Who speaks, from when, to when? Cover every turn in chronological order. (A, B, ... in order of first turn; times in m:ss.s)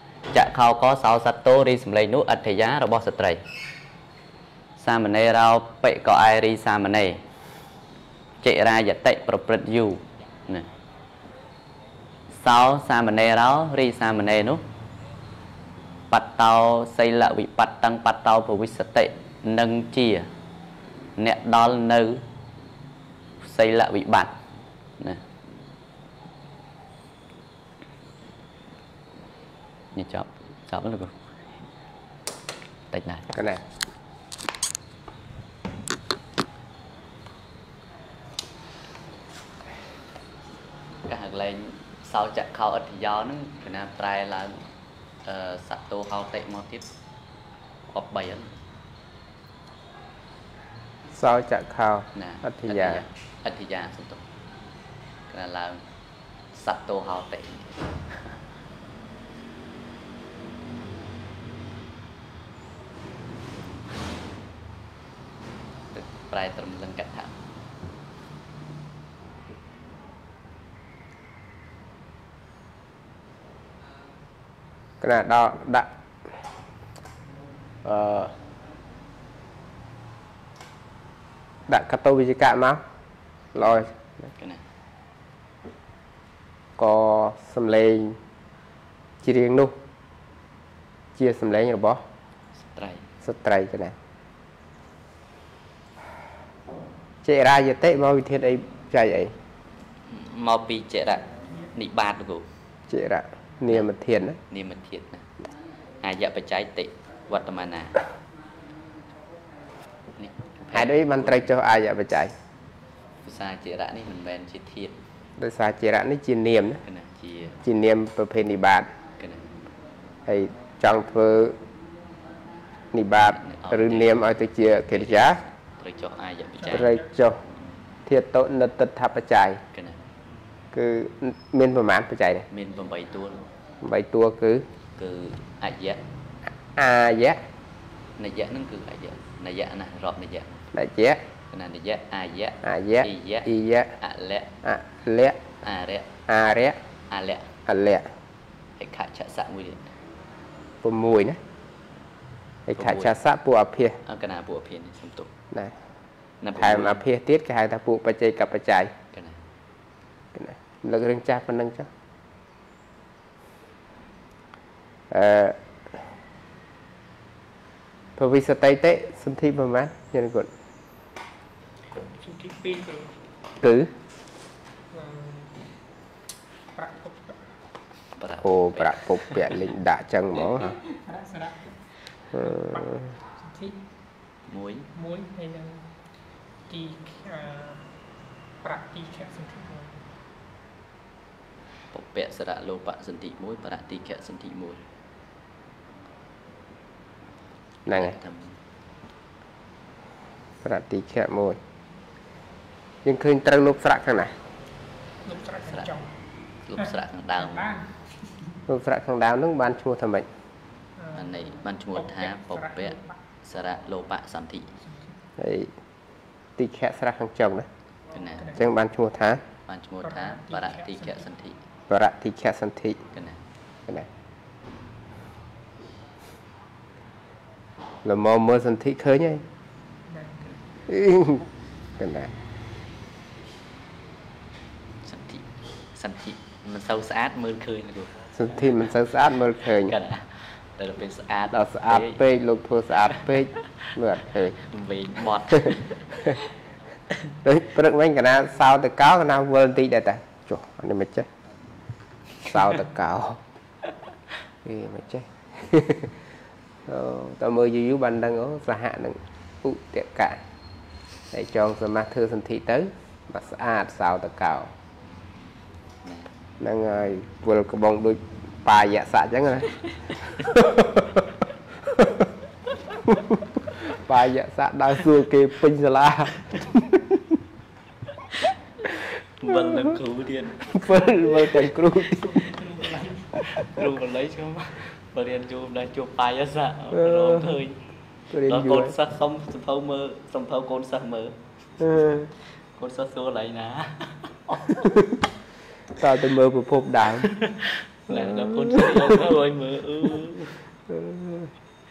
0:00.3-0:03.4 A
0:04.8-0:07.2 A
0:08.4-0:10.7 A
0:12.4-0:14.6 A
0:16.1-0:20.3 A
0:21.2-0:22.2 A
0:23.4-0:24.4 A
0:25.0-0:25.2 A
0:29.9-0:31.3 A
0:32.9-0:33.4 A
0:33.4-0:33.6 B
0:41.0-0:44.7 A
0:45.2-0:46.9 A
0:47.9-0:48.5 A
0:51.1-0:53.0 B
0:52.1-0:54.2 A
0:55.3-0:55.8 A
0:56.5-0:57.8 A
1:05.9-1:07.4 A
1:15.0-1:16.4 B
1:17.8-1:18.4 B
1:21.7-1:22.8 B
1:23.5-1:23.9 B
1:23.6-1:24.6 A
1:26.8-1:28.2 B
1:29.2-1:29.8 B
1:31.2-1:32.0 B
1:32.6-1:33.1 A
1:33.2-1:34.0 B
1:37.2-1:39.4 B
1:40.1-1:42.5 A
1:42.9-1:44.4 B
1:44.5-1:45.3 A
1:46.0-1:48.0 A
1:50.2-1:51.5 A
1:50.7-1:52.4 B
1:53.2-1:55.0 A
1:55.4-1:56.8 B
1:56.8-1:57.6 A
1:57.6-1:58.9 B
1:59.2-1:59.5 A
2:00.3-2:01.6 B
2:02.9-2:05.4 B
2:03.2-2:07.0 A
2:06.6-2:07.1 C
2:06.7-2:07.4 B
2:08.1-2:09.6 B
2:09.7-2:10.0 A
2:10.7-2:12.5 B
2:12.5-2:13.5 A
2:13.8-2:14.7 B
2:15.0-2:16.0 A
2:16.8-2:17.4 B
2:18.2-2:20.7 A
2:20.7-2:21.2 B
2:21.5-2:24.6 A
2:22.6-2:24.0 B
2:24.6-2:25.4 B
2:25.6-2:26.2 A
2:26.3-2:26.8 B
2:27.1-2:27.6 A
2:27.7-2:28.1 B
2:28.8-2:29.9 A
2:30.8-2:31.4 B
2:32.7-2:34.0 B
2:32.8-2:33.2 A
2:34.0-2:35.3 A
2:36.4-2:37.0 A
2:36.6-2:38.9 B
2:39.1-2:39.4 A
2:40.4-2:41.9 B
2:45.1-2:46.0 B
2:48.2-2:50.5 B
2:52.2-2:53.1 C
2:53.6-2:53.9 B
2:54.9-2:55.6 C
2:56.7-2:57.4 C
2:58.2-2:59.7 A
2:58.4-3:00.8 B
3:00.8-3:01.8 C
3:02.3-3:03.8 C
3:02.3-3:03.1 B
3:04.5-3:04.9 A
3:05.0-3:05.9 C
3:06.7-3:07.9 C
3:08.6-3:10.0 C
3:11.9-3:14.8 A
3:17.9-3:18.6 A
3:17.9-3:18.2 B
3:20.6-3:21.6 B
3:23.0-3:24.4 B
3:25.2-3:26.1 C
3:25.4-3:26.0 A
3:26.7-3:27.8 A
3:26.8-3:28.6 C
3:28.7-3:30.3 B
3:31.0-3:31.5 C
3:31.1-3:34.8 A
3:32.0-3:33.2 C
3:35.4-3:35.7 B
3:36.6-3:37.7 B
3:38.1-3:38.6 A
3:38.4-3:38.7 C
3:38.6-3:39.4 B
3:39.7-3:41.6 A
3:40.0-3:41.3 C
3:41.9-3:43.0 B
3:43.1-3:43.4 A
3:48.0-3:49.4 B
3:50.1-3:50.4 C
3:50.9-3:52.3 B
3:55.0-3:58.3 A
3:58.4-4:00.0 B
3:59.7-4:02.2 A
4:01.5-4:04.6 B
4:03.1-4:03.4 A
4:04.5-4:06.4 A
4:07.4-4:11.3 B
4:12.4-4:13.4 B
4:14.6-4:16.2 B
4:16.9-4:20.4 B
4:21.3-4:24.7 B
4:26.0-4:26.3 A
4:26.6-4:31.3 B
4:31.8-4:32.3 B
4:33.1-4:37.2 B
4:38.4-4:47.8 A
4:40.7-4:42.4 B
4:46.9-4:47.6 B
4:48.3-4:49.0 B
4:48.4-4:55.1 A
4:51.8-4:52.3 B
4:56.0-4:57.3 B
4:57.1-5:00.7 A
4:58.1-4:59.2 B
5:00.9-5:01.5 B